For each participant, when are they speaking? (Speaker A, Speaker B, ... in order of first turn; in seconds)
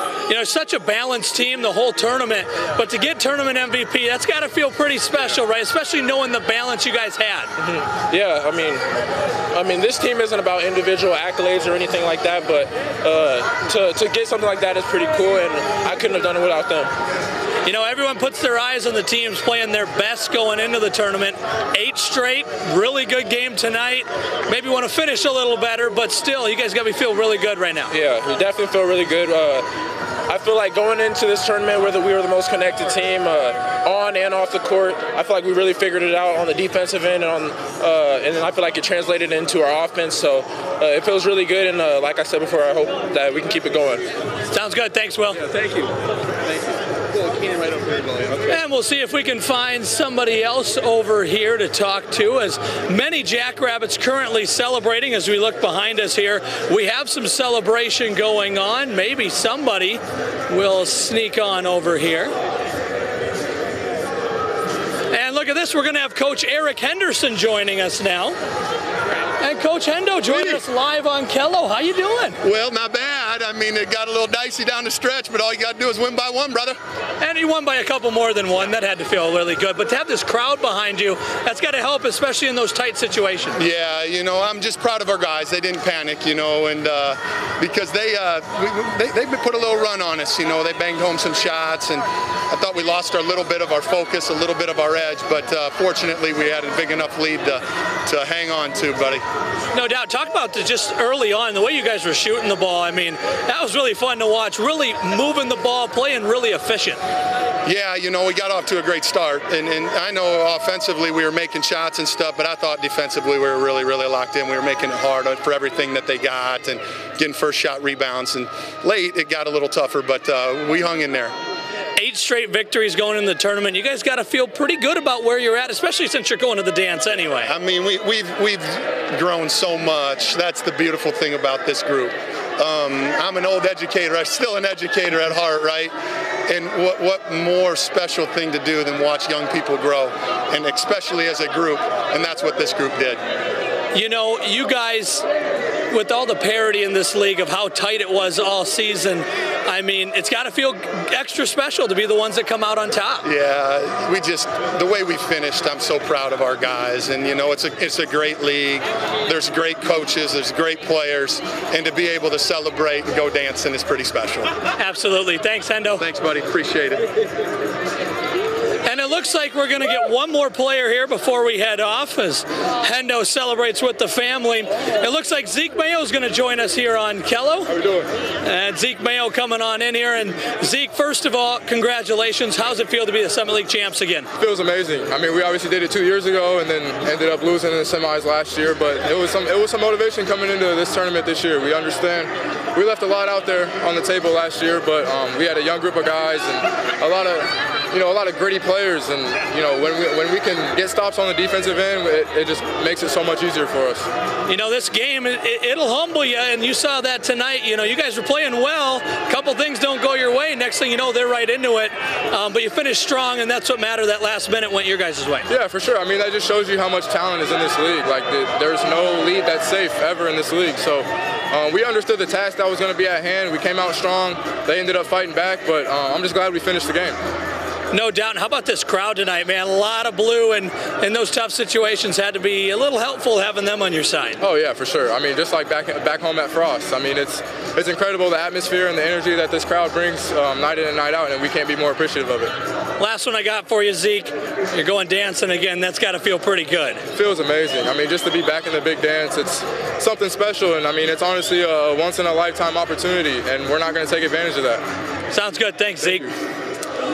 Speaker A: 0.3-7.5, 17.6-27.9, 44.5-45.4, 48.5-62.3, 65.1-68.4, 69.4-72.4, 77.2-83.6, 99.7-107.0, 122.0-127.5, 143.9-145.2, 145.9-153.3, 164.8-166.0, 168.8-177.7, 178.4-184.3, 204.5-215.5, 227.9-234.4, 243.0-247.1, 255.3-256.3
Speaker B: 7.6-8.8, 9.5-16.9, 27.9-29.7, 30.3-44.1, 45.4-48.6
Speaker C: 70.3-70.6, 72.4-76.8, 83.6-99.2, 107.7-121.3, 127.5-135.9, 136.5-143.2, 153.2-164.5, 166.0-167.1
Speaker D: 177.8-178.0, 184.4-204.1, 215.5-227.2, 234.4-242.5, 247.1-254.8